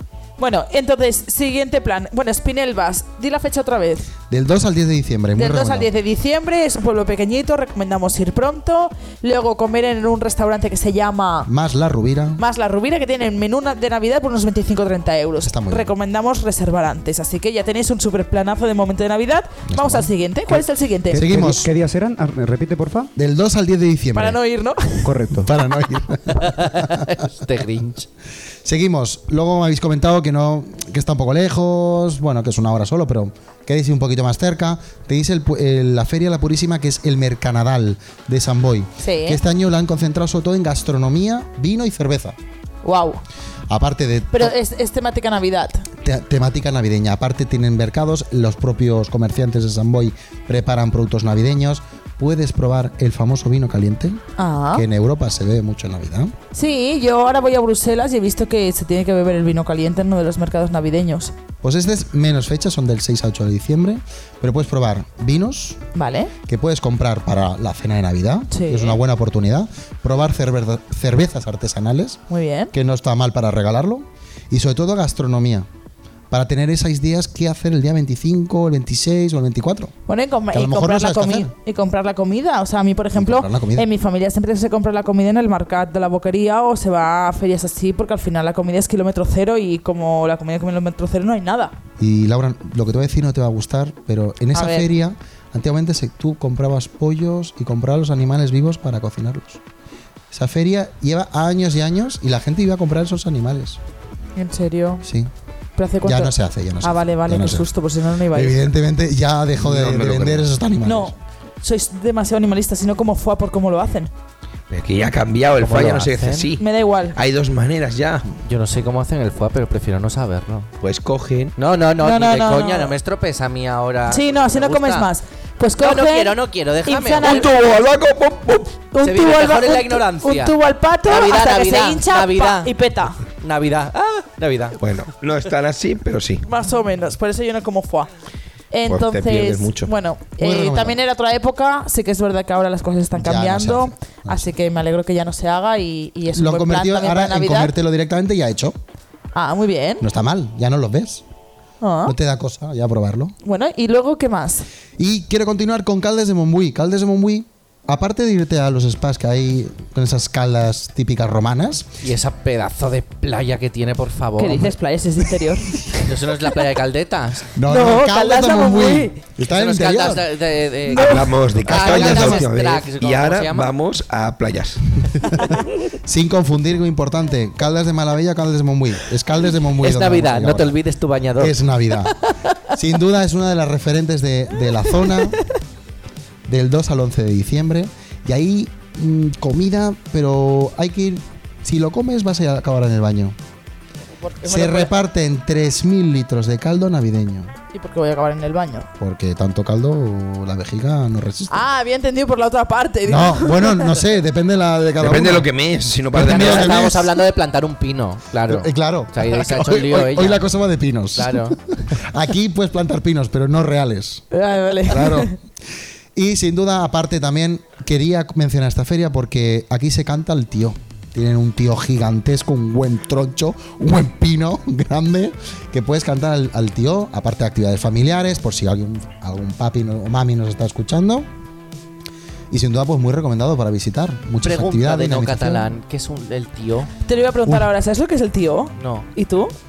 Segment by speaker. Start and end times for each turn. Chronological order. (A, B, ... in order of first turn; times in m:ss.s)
0:00.4-0:04.1 A
0:04.3-0:05.9 B
0:05.4-0:11.5 A
0:11.4-0:12.4 B
0:12.4-0:21.3 A
0:15.4-0:15.9 B
0:19.7-0:20.1 B
0:21.1-0:23.1 C
0:21.2-0:21.7 B
0:23.2-0:24.4 B
0:24.1-0:25.3 A
0:25.0-0:25.5 C
0:25.4-0:27.2 B
0:26.4-0:28.1 D
0:28.6-0:42.4 B
0:39.0-0:39.4 A
0:42.8-0:43.2 A
0:43.7-0:44.5 B
0:44.3-0:45.9 A
0:46.0-0:56.3 B
0:54.4-0:54.8 A
0:56.5-1:01.3 A
1:01.6-1:05.8 B
1:05.9-1:06.3 A
1:06.5-1:12.2 B
1:08.5-1:09.0 A
1:12.3-1:12.7 A
1:12.7-1:15.7 B
1:16.3-1:19.9 B
1:20.1-1:31.7 A
1:20.5-1:21.5 B
1:23.1-1:23.9 B
1:32.0-1:39.6 B
1:34.5-1:34.9 A
1:40.3-1:43.8 B
1:44.4-1:45.0 A
1:45.0-1:45.3 B
1:45.8-1:48.6 A
1:46.0-1:47.7 B
1:48.3-1:51.1 B
1:49.6-1:50.5 E
1:50.8-1:54.1 A
1:54.7-1:58.3 E
1:55.6-1:56.5 D
1:56.6-1:57.2 A
1:58.4-2:00.7 D
2:00.8-2:01.6 E
2:01.6-2:05.1 D
2:02.0-2:03.0 A
2:04.1-2:07.8 A
2:05.8-2:07.5 D
2:07.2-2:08.8 E
2:08.9-2:13.2 A
2:09.0-2:12.7 D
2:13.3-2:14.8 D
2:14.8-2:16.4 E
2:16.4-2:18.1 A
2:18.7-2:27.7 A
2:18.9-2:19.9 E
2:20.4-2:21.0 B
2:23.1-2:24.5 B
2:26.3-2:28.8 B
2:29.3-2:30.0 A
2:30.0-2:31.2 B
2:31.8-2:32.1 A
2:32.0-2:33.3 B
2:33.4-2:34.6 A
2:35.0-2:41.9 B
2:42.0-2:44.7 D
2:44.4-2:46.0 A
2:46.0-2:47.5 D
2:47.5-2:50.3 B
2:47.7-2:49.2 A
2:49.4-2:53.7 D
2:50.9-2:51.3 A
2:50.9-2:55.1 E
2:51.6-2:52.5 B
2:56.0-3:00.8 B
2:59.8-3:02.6 D
3:01.4-3:02.2 B
3:02.7-3:05.4 B
3:05.1-3:05.4 A
3:06.5-3:13.4 B
3:14.2-3:14.9 A
3:14.4-3:17.5 B
3:17.7-3:18.9 A
3:19.0-3:21.6 B
3:21.5-3:24.0 A
3:23.0-3:25.5 B
3:25.0-3:26.8 E
3:26.1-3:27.2 B
3:26.2-3:30.4 D
3:28.5-3:34.2 B
3:31.1-3:31.6 D
3:34.3-3:35.3 A
3:34.9-3:35.3 B
3:36.1-3:51.3 B
3:52.5-3:55.7 B
3:54.4-3:56.9 D
3:57.0-3:59.5 A
3:58.8-3:59.1 D